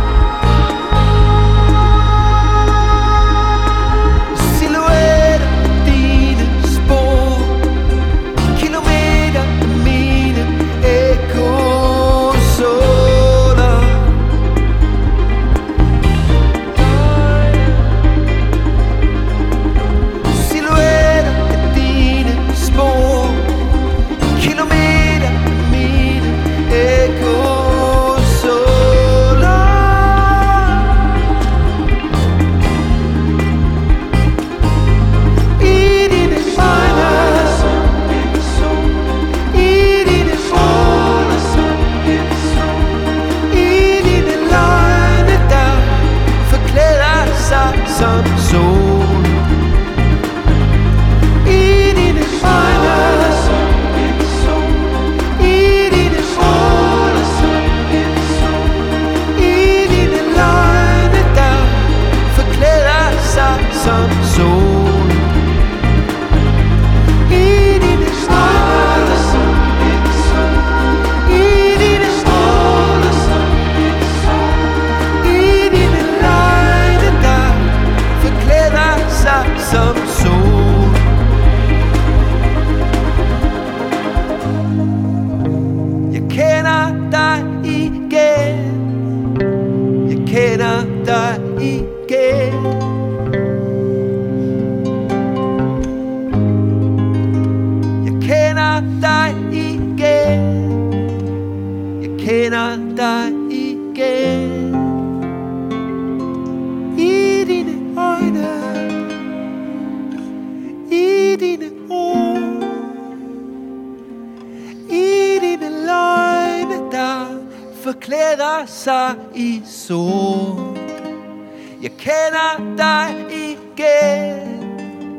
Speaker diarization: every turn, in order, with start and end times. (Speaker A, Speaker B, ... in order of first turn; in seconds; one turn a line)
Speaker A: 4.3-7.8
Speaker A: 8.4-14.2
Speaker A: 16.7-18.0
Speaker A: 20.2-23.8
Speaker A: 24.3-31.0
Speaker A: 35.6-49.5
Speaker A: 51.4-65.5
Speaker A: 67.3-81.2
Speaker A: 86.1-88.9
Speaker A: 90.0-92.9
Speaker A: 98.0-100.9
Speaker A: 102.0-105.0
Speaker A: 106.9-109.1
Speaker A: 110.9-113.0
Speaker A: 114.9-120.9
Speaker A: 121.8-124.8